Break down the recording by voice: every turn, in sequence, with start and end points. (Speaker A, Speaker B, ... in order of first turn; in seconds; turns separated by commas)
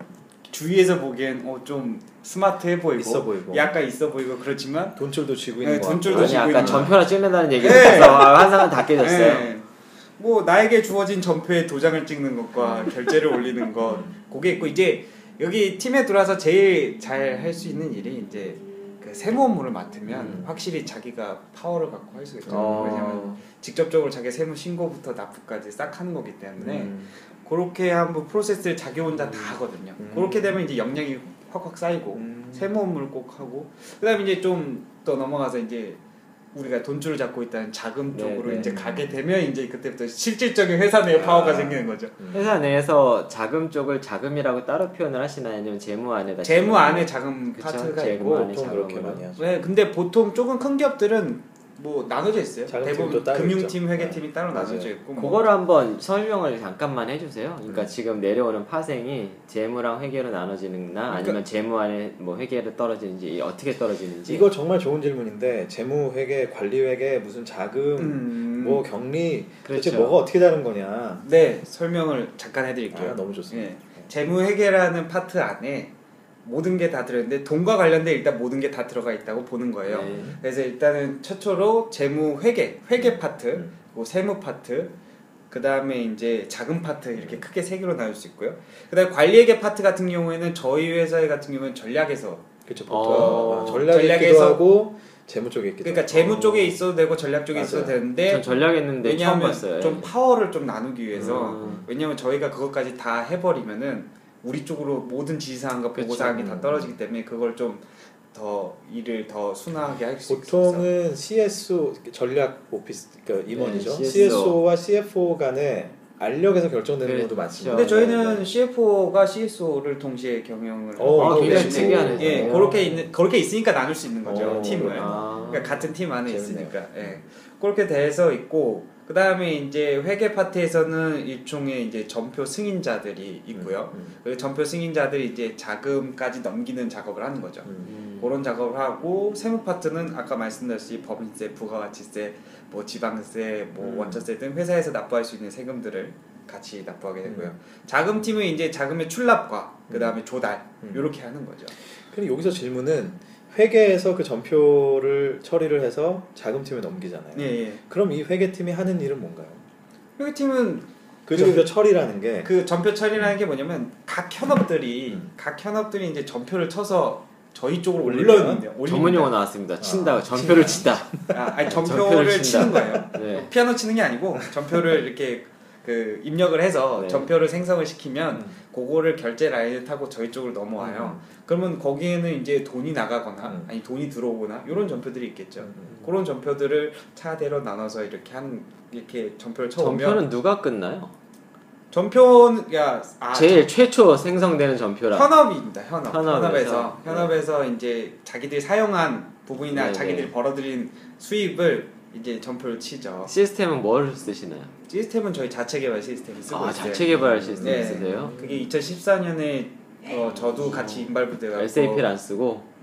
Speaker A: 0.5-5.0, Speaker B: 3.0-3.8, Speaker B: 5.0-6.9, Speaker A: 5.6-7.0, Speaker C: 6.1-9.5, Speaker A: 7.6-8.5, Speaker A: 9.0-9.7, Speaker A: 10.2-36.0, Speaker B: 12.6-12.9, Speaker B: 13.9-14.1, Speaker B: 20.1-20.6, Speaker B: 22.4-23.4, Speaker C: 22.5-23.2, Speaker B: 26.6-27.1, Speaker C: 29.2-29.5, Speaker B: 30.0-30.6, Speaker B: 32.1-32.7, Speaker A: 36.5-42.1, Speaker C: 38.1-38.7, Speaker B: 38.5-39.1, Speaker B: 41.1-42.5, Speaker C: 42.3-49.2, Speaker A: 46.4-48.4, Speaker B: 48.2-49.6, Speaker A: 49.4-55.4, Speaker B: 52.7-54.9, Speaker C: 55.2-64.5, Speaker B: 57.7-57.9, Speaker A: 61.1-61.4, Speaker B: 64.3-71.2, Speaker A: 68.0-68.8, Speaker C: 69.7-70.2, Speaker A: 71.2-75.9, Speaker B: 72.9-74.1, Speaker A: 76.4-85.0, Speaker C: 79.9-80.3, Speaker B: 80.0-80.4, Speaker B: 83.0-83.7, Speaker A: 85.5-92.5, Speaker B: 87.2-87.4, Speaker B: 92.7-96.8, Speaker C: 92.9-93.9, Speaker A: 93.1-94.7, Speaker A: 95.8-98.5, Speaker B: 97.5-98.7, Speaker C: 98.3-100.1, Speaker A: 99.0-110.9, Speaker B: 101.1-101.9, Speaker C: 101.2-101.9, Speaker C: 106.0-106.6, Speaker B: 106.4-106.9, Speaker B: 110.3-118.5, Speaker C: 113.5-114.6, Speaker C: 117.0-118.0, Speaker A: 117.7-137.7, Speaker B: 121.0-122.8, Speaker C: 121.1-123.0, Speaker B: 124.2-127.2, Speaker C: 124.4-125.7, Speaker B: 133.5-134.2, Speaker B: 137.7-137.9, Speaker C: 137.8-138.3, Speaker A: 138.2-151.7, Speaker B: 143.8-144.3, Speaker B: 147.2-147.5, Speaker B: 149.9-150.2, Speaker B: 150.8-151.1, Speaker B: 151.9-159.6, Speaker A: 157.3-157.8, Speaker A: 160.2-161.7, Speaker B: 161.3-162.5, Speaker A: 162.4-169.3, Speaker B: 168.0-168.6, Speaker C: 168.9-173.5, Speaker B: 169.8-171.8, Speaker A: 171.3-190.2, Speaker B: 172.8-173.0, Speaker C: 177.0-177.3, Speaker B: 180.8-181.2, Speaker B: 185.6-186.0, Speaker C: 189.8-191.1, Speaker A: 191.9-193.7, Speaker C: 193.3-195.3, Speaker A: 195.1-203.3, Speaker C: 196.1-197.3, Speaker C: 199.7-200.3, Speaker C: 203.3-204.7, Speaker A: 204.9-212.1, Speaker C: 206.5-208.3, Speaker B: 207.1-208.7, Speaker C: 210.7-212.7